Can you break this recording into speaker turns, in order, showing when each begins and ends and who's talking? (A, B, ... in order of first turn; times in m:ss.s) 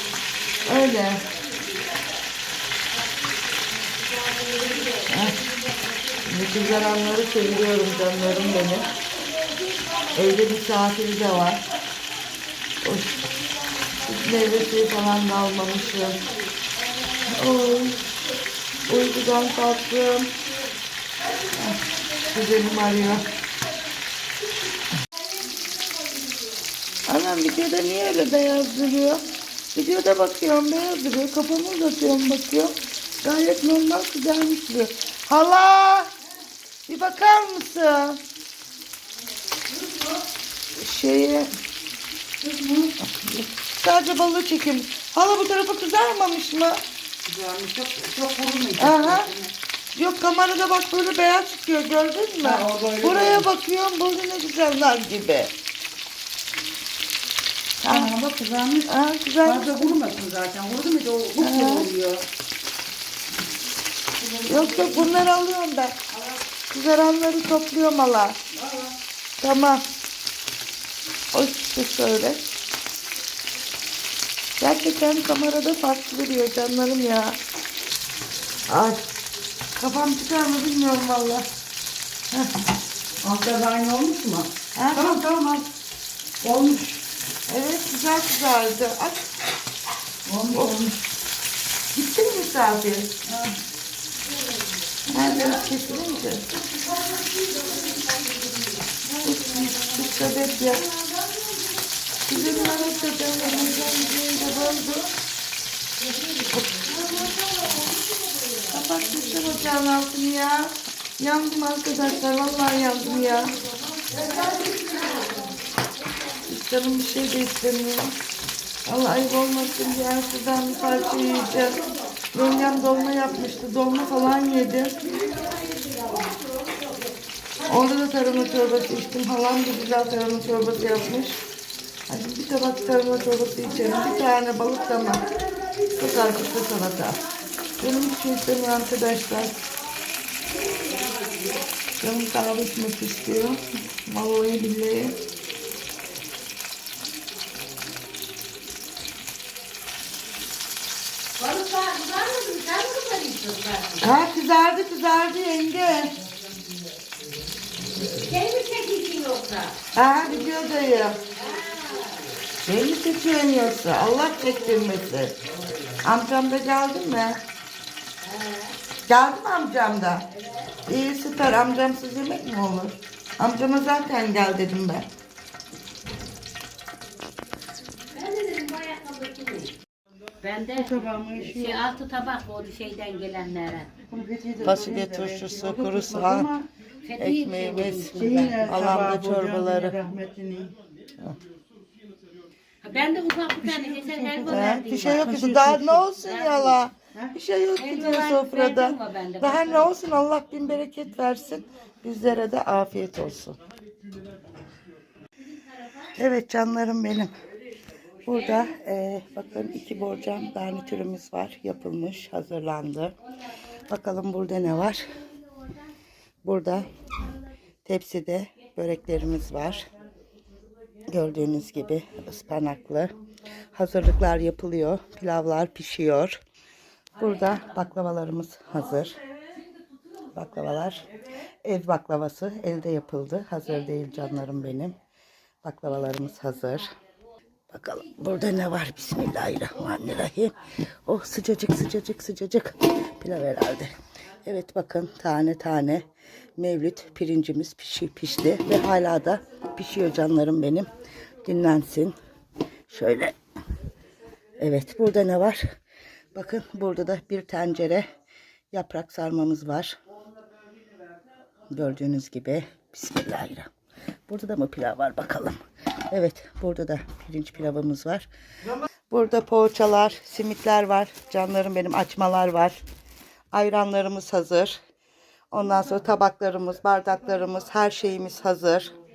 0:00.6-0:01.2 A
0:05.0-0:05.4 A
0:06.2-0:08.9 A
0:10.1-0:11.6 A
0:12.8-0:13.2 A
0:14.0-0:16.2 A
0:17.2-0:18.0 A
0:18.8-0:20.3 A
0:21.5-0:23.2 A
0:27.1-0:36.1 A
0:36.9-0:38.2 A
0:39.8-0:40.1 B
0:40.7-0:41.5 A
0:42.4-0:42.9 B
0:43.0-0:46.8 A
0:47.2-0:49.5 B
0:48.8-0:49.3 A
0:49.9-0:55.5 A
0:52.4-0:53.4 B
0:57.8-0:58.1 A
0:57.8-0:58.9 B
0:58.8-0:59.9 A
0:59.4-1:02.2 B
1:01.4-1:01.9 A
1:04.2-1:05.1 B
1:04.4-1:06.0 A
1:06.1-1:06.4 B
1:06.7-1:08.4 A
1:08.5-1:08.9 B
1:09.4-1:09.8 A
1:11.3-1:12.4 A
1:14.6-1:17.4 A
1:18.7-1:19.0 A
1:19.8-1:21.4 A
1:23.2-1:25.7 B
1:24.7-1:25.2 A
1:26.4-1:27.0 B
1:27.5-1:29.3 A
1:30.2-1:31.0 B
1:30.5-1:30.8 A
1:31.9-1:33.1 A
1:33.2-1:33.6 B
1:35.1-1:35.7 B
1:35.1-1:36.5 A
1:36.5-1:38.8 C
1:39.2-1:40.8 A
1:40.2-1:41.8 C
1:42.3-1:45.1 A
1:42.3-1:43.4 C
1:46.0-1:48.6 C
1:46.5-1:46.9 A
1:48.7-1:53.6 A
1:54.1-1:55.4 C
1:54.2-1:55.1 B
1:56.4-1:58.2 A
1:58.8-2:05.0 A
2:05.2-2:06.4 C
2:07.6-2:11.4 A
2:12.1-2:15.2 A
2:15.9-2:17.2 A
2:17.8-2:19.6 A
2:20.8-2:21.2 C
2:22.0-2:25.2 A
2:31.4-2:34.1 C
2:34.0-2:36.2 A
2:38.0-2:39.8 C
2:39.9-2:41.2 A
2:41.3-2:42.3 C
2:42.6-2:45.4 A
2:46.0-2:47.4 A
2:48.2-2:48.7 C
2:49.1-2:50.3 A
2:50.8-2:55.1 A
2:58.1-2:59.8 C
3:00.4-3:03.9 C
3:00.7-3:01.9 B
3:04.0-3:06.7 B
3:04.6-3:06.5 A
3:07.0-3:09.0 C
3:07.2-3:10.0 A
3:08.1-3:10.7 B
3:12.8-3:16.8 C
3:13.6-3:15.8 B
3:14.4-3:23.6 A
3:17.8-3:19.9 C
3:26.2-3:27.3 A
3:28.2-3:33.1 A
3:33.9-3:35.1 A
3:36.4-3:36.9 A
3:37.8-3:39.8 A
3:41.1-3:43.1 A
3:43.7-3:46.4 A
3:47.2-3:49.2 A
3:50.3-3:51.0 A
3:51.6-3:55.0 A
3:55.6-3:56.9 A
3:57.7-4:03.9 A
4:04.4-4:06.0 A
4:06.6-4:10.9 A
4:11.4-4:12.1 A
4:12.9-4:13.3 A
4:14.6-4:15.6 A
4:16.3-4:18.0 A
4:18.7-4:20.0 A
4:21.7-4:23.7 A
4:24.3-4:25.6 A
4:26.1-4:28.3 A
4:29.1-4:32.8 A
4:33.5-4:34.8 A
4:35.5-4:38.9 A